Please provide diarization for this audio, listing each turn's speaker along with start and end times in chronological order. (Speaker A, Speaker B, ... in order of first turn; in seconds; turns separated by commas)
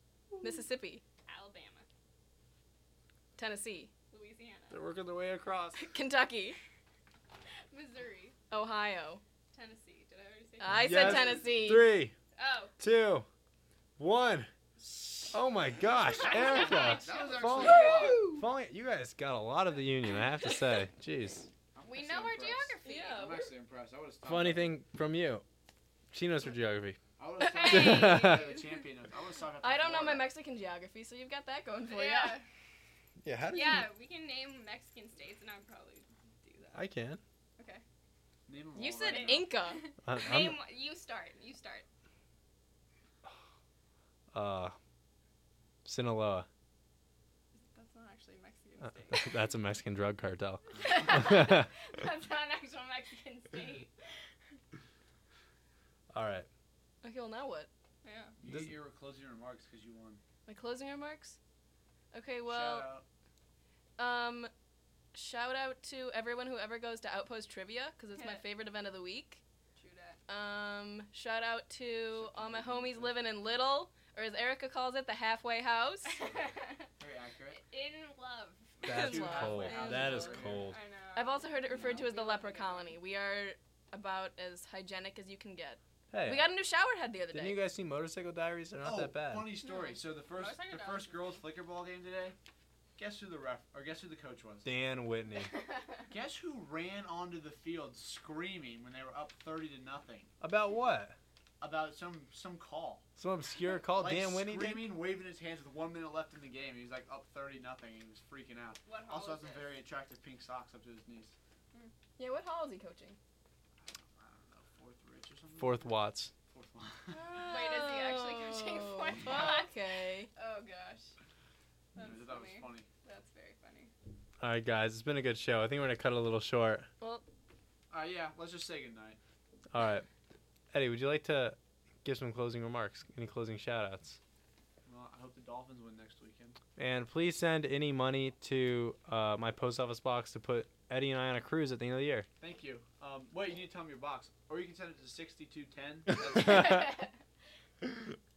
Speaker A: 0.4-1.0, Speaker B: 1.2-1.9, Speaker A: 3.4-3.9, Speaker B: 4.1-4.8, Speaker C: 4.7-5.8, Speaker A: 5.8-6.6, Speaker B: 7.7-8.4, Speaker A: 8.5-9.2, Speaker B: 9.5-11.4, Speaker A: 10.6-11.9, Speaker C: 10.6-12.2, Speaker B: 12.3-12.8, Speaker C: 12.8-13.3, Speaker C: 14.0-14.5, Speaker C: 15.2-21.5, Speaker D: 16.2-18.3, Speaker B: 16.2-17.6, Speaker A: 17.6-18.4, Speaker D: 21.8-24.8, Speaker B: 21.8-23.4, Speaker A: 22.8-23.5, Speaker C: 24.2-25.4, Speaker C: 26.1-27.0, Speaker D: 27.2-30.3, Speaker B: 27.4-28.7, Speaker C: 27.6-28.6, Speaker A: 29.6-32.4, Speaker B: 31.8-32.5, Speaker C: 33.2-33.9, Speaker B: 33.5-36.9, Speaker C: 36.8-37.2, Speaker B: 37.6-37.8, Speaker D: 38.5-39.5, Speaker A: 38.8-39.9, Speaker B: 39.0-41.9, Speaker C: 40.0-40.6, Speaker C: 44.3-44.8, Speaker C: 45.9-46.5, Speaker B: 47.7-49.5, Speaker C: 48.8-51.7, Speaker B: 50.7-53.9, Speaker C: 56.1-56.5, Speaker A: 57.0-57.7, Speaker B: 58.0-58.4, Speaker D: 58.4-60.2, Speaker A: 60.5-61.4, Speaker A: 62.1-62.9, Speaker D: 62.4-63.0, Speaker A: 64.0-64.5, Speaker A: 65.1-69.4, Speaker B: 68.1-68.5, Speaker B: 69.8-70.2, Speaker A: 70.3-76.2, Speaker D: 72.1-73.2, Speaker B: 76.1-76.9, Speaker D: 77.0-77.6, Speaker B: 77.5-78.8, Speaker D: 78.8-80.7, Speaker C: 78.8-80.8, Speaker A: 78.9-80.3, Speaker B: 79.6-83.0, Speaker A: 81.2-87.6, Speaker D: 81.7-82.1, Speaker C: 86.1-86.5, Speaker C: 87.3-89.6, Speaker D: 88.8-92.4, Speaker B: 89.6-91.4, Speaker D: 93.0-94.7, Speaker C: 94.7-95.5, Speaker D: 96.1-100.3, Speaker C: 100.4-101.2, Speaker D: 101.6-103.0, Speaker C: 103.2-105.0, Speaker D: 103.9-111.3, Speaker B: 108.8-109.8, Speaker A: 112.2-113.2, Speaker D: 113.8-117.2, Speaker C: 115.6-116.3, Speaker A: 117.1-120.3, Speaker B: 117.3-119.8, Speaker B: 120.3-121.1, Speaker B: 121.9-123.9, Speaker D: 122.0-122.9, Speaker C: 124.4-126.9, Speaker D: 127.9-129.2, Speaker C: 129.7-130.1, Speaker C: 130.7-134.2, Speaker D: 134.8-136.6, Speaker C: 136.8-142.3, Speaker D: 142.4-146.9, Speaker B: 146.3-147.0, Speaker C: 146.4-146.8, Speaker C: 147.8-148.2